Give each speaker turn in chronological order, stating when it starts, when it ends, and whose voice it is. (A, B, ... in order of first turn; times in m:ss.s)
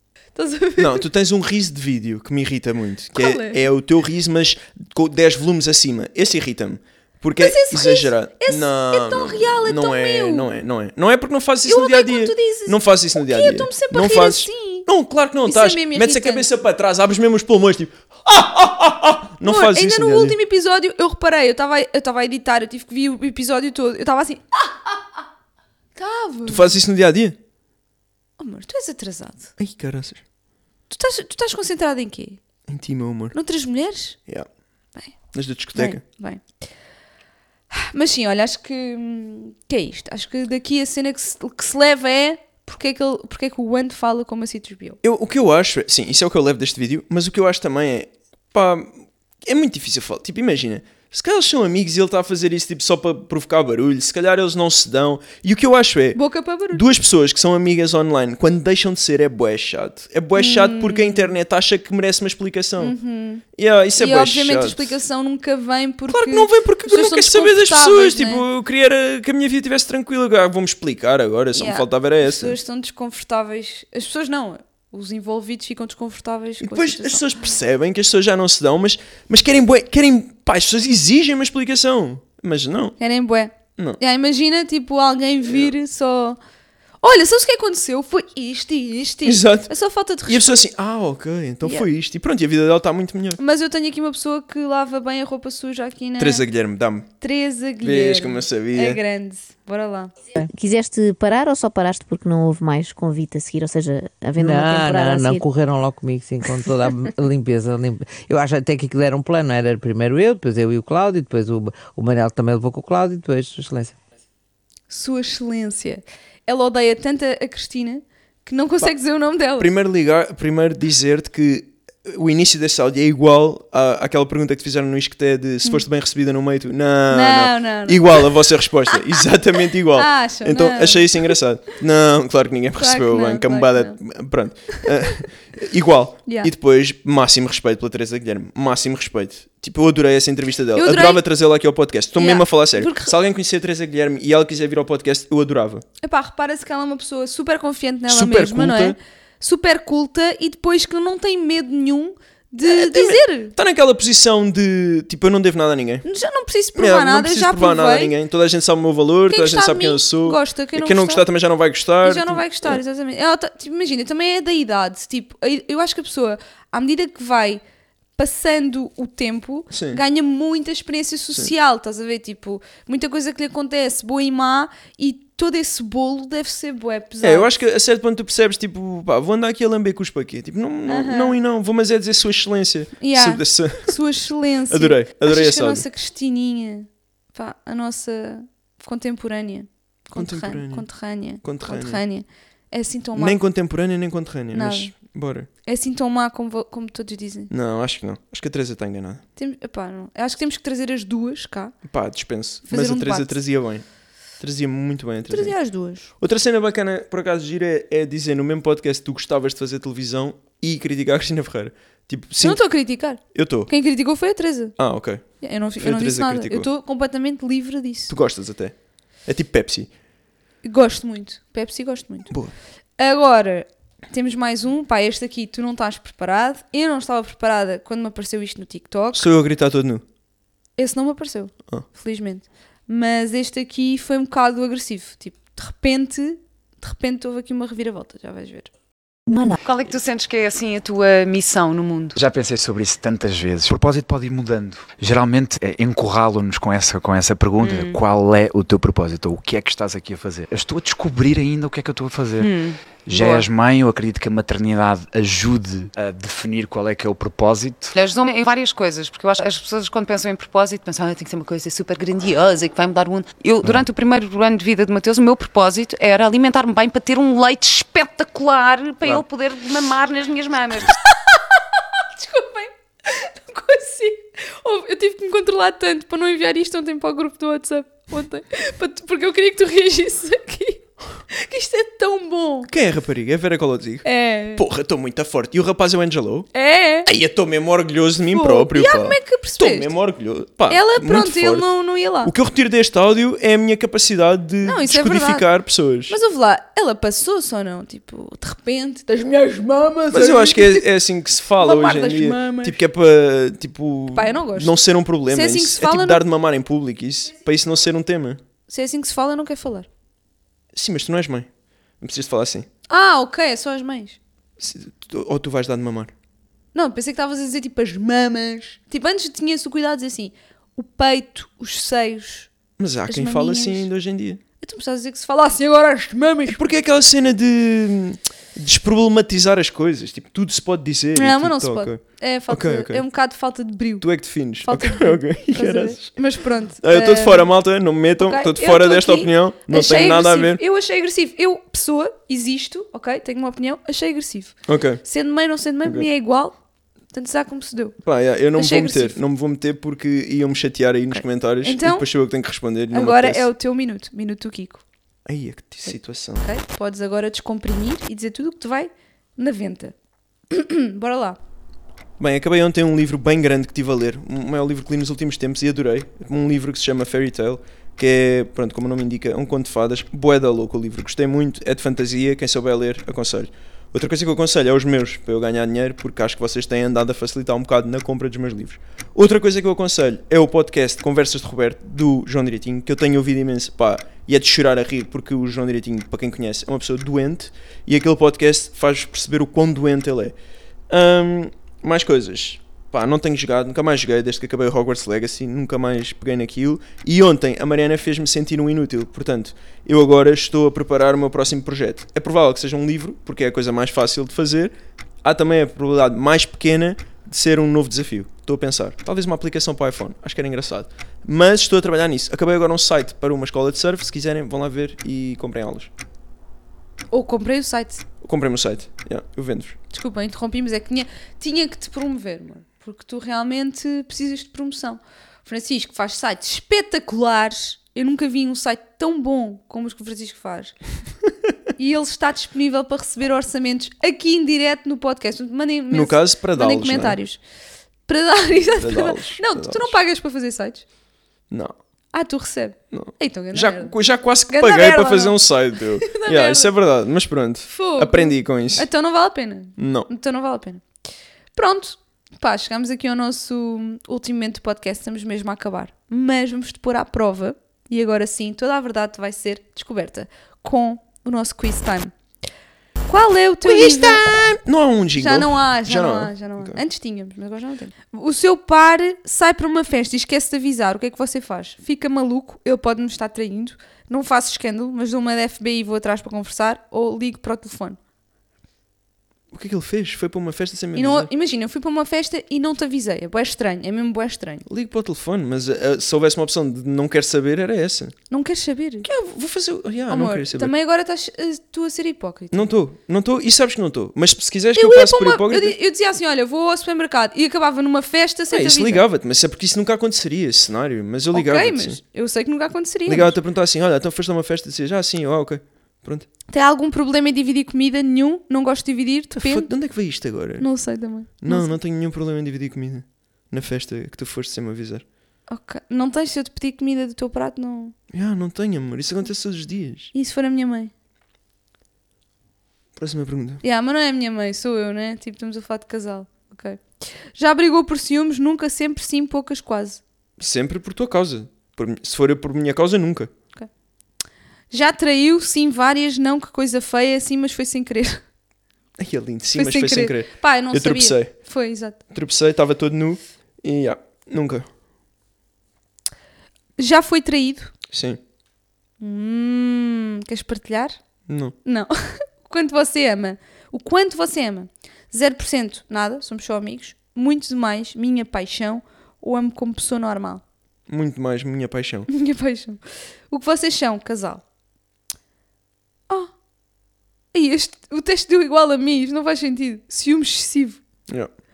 0:00.3-0:01.0 A
0:00.8-0:20.4 B
0:03.2-0:03.6 A
0:07.4-0:10.5 A
0:11.6-0:14.9 A
0:15.4-0:16.5 A
0:19.4-0:25.0 A
0:26.0-0:26.8 A
0:26.4-0:27.4 B
0:28.4-0:29.5 A
0:29.6-0:30.2 B
0:30.9-0:32.4 A
0:32.7-0:33.4 B
0:33.3-0:34.2 A
0:35.3-0:36.0 B
0:35.7-0:36.4 A
0:37.7-0:45.0 A
0:45.0-0:56.2 B
0:56.1-0:56.8 A
0:56.7-1:03.0 B
1:00.4-1:01.3 A
1:02.8-1:03.4 A
1:03.5-1:04.9 B
1:03.9-1:08.4 A
1:06.1-1:12.6 B
1:11.5-1:17.2 A
1:16.6-1:23.0 B
1:23.0-1:26.4 A
1:25.4-1:25.7 B
1:27.0-1:30.6 A
1:29.2-1:29.7 B
1:30.2-1:33.4 B
1:33.4-1:36.4 A
1:36.2-1:37.1 B
1:37.2-1:40.1 A
1:37.8-1:39.0 B
1:40.5-1:45.4 C
1:44.4-1:54.0 D
1:54.9-1:59.7 A
1:59.6-2:25.8 B
2:07.1-2:08.4 A
2:08.9-2:09.2 A
2:09.9-2:11.4 A
2:12.8-2:14.0 A
2:20.8-2:21.2 A
2:22.2-2:23.1 A
2:26.0-2:33.5 A
2:28.1-2:29.0 B
2:32.6-2:36.0 B
2:36.0-2:38.1 A
2:36.7-2:42.8 B
2:39.3-2:41.2 A
2:42.0-2:47.6 A
2:48.2-2:57.5 A
2:49.7-2:50.0 B
2:57.2-3:04.0 B
3:00.9-3:01.4 A
3:03.0-3:13.4 A
3:04.7-3:05.8 B
3:10.2-3:10.8 B
3:11.4-3:12.0 B
3:13.2-3:15.5 B
3:14.5-3:14.9 A
3:15.6-3:17.5 A
3:17.5-3:19.2 B
3:19.4-3:21.7 A
3:21.8-3:23.8 B
3:22.6-3:23.4 A
3:24.4-3:25.5 B
3:25.3-3:26.1 A
3:26.2-3:32.6 B
3:32.4-3:34.7 A
3:33.2-3:33.7 B
3:34.8-3:35.2 B
3:35.4-3:38.1 A
3:35.8-3:36.7 B
3:38.1-3:38.7 B
3:39.2-3:39.9 B
3:40.6-3:42.3 A
3:43.0-3:49.3 A
3:49.1-3:50.0 B
3:50.8-3:58.7 A
3:59.3-4:02.2 E
4:02.2-4:12.5 F
4:07.6-4:08.0 E
4:12.4-4:13.5 E
4:13.0-4:17.9 F
4:17.9-4:31.0 E
4:32.0-4:42.7 A
4:42.7-4:46.5 B
4:44.0-4:44.6 A
4:46.5-4:47.1 A
4:47.0-4:51.7 B
4:48.3-4:49.9 A
4:50.7-4:52.3 A
4:52.2-4:56.2 B
4:54.6-4:55.5 A
4:56.1-5:00.9 A
5:00.1-5:08.4 B
5:01.6-5:02.8 A
5:04.1-5:04.8 A
5:05.3-5:06.2 A
5:08.7-5:09.9 A
5:10.7-5:11.5 B
5:12.0-5:12.7 B
5:12.9-5:14.2 A
5:14.6-5:16.1 B
5:16.7-5:22.5 A
5:22.8-5:24.4 B
5:23.1-5:23.9 A
5:24.6-5:26.6 A
5:26.5-5:33.0 B
5:31.1-5:34.1 A
5:34.0-5:36.1 B
5:34.6-5:37.5 A
5:36.8-5:40.6 B
5:38.2-5:46.6 A
5:44.7-5:45.0 B
5:47.1-5:48.0 A
5:48.0-5:53.4 B
5:48.5-5:49.2 A
5:51.1-5:52.1 A
5:52.9-5:54.8 A
5:55.2-5:56.4 B
5:55.9-5:59.9 A
6:00.5-6:01.4 A
6:02.2-6:30.3 B
6:30.9-6:55.9 B
6:57.1-6:58.0 A
6:58.2-6:59.8 B
6:59.9-7:10.7 A
7:11.8-7:17.4 A
7:15.9-7:17.2 B
7:18.1-7:20.8 A
7:18.8-7:20.0 B
7:22.1-7:23.9 A
7:22.9-7:28.9 B
7:24.5-7:25.4 A
7:26.0-7:26.7 A
7:27.7-7:30.8 A
7:29.8-7:30.1 B
7:31.5-7:42.1 A
7:43.1-7:44.2 A
7:43.6-7:46.8 B
7:45.2-7:58.0 A
7:59.5-8:01.3 B
8:00.9-8:04.6 A
8:04.6-8:08.1 B
8:08.3-8:09.1 A
8:09.0-8:10.7 B
8:10.1-8:12.7 A
8:12.5-8:15.7 B
8:14.7-8:19.0 A
8:18.5-8:22.0 B
8:21.3-8:23.3 A
8:23.1-8:26.3 B
8:26.5-8:29.7 A
8:29.4-8:30.7 B
8:30.6-8:31.8 A
8:31.4-8:35.0 B
8:35.5-8:37.9 A
8:38.1-8:40.1 B
8:40.1-8:40.9 A
8:43.0-8:43.6 B
8:43.6-8:46.8 A
8:47.3-8:50.0 A
8:50.4-8:53.3 B
8:54.7-8:58.2 A
8:59.0-9:01.3 B
8:59.5-9:02.0 A
9:02.1-9:04.6 B
9:06.8-9:07.7 A
9:07.9-9:08.2 B
9:09.0-9:11.0 A
9:11.3-9:11.5 B
9:11.6-9:20.4 A
9:20.9-9:22.1 B
9:22.1-9:24.4 A
9:27.3-9:30.8 A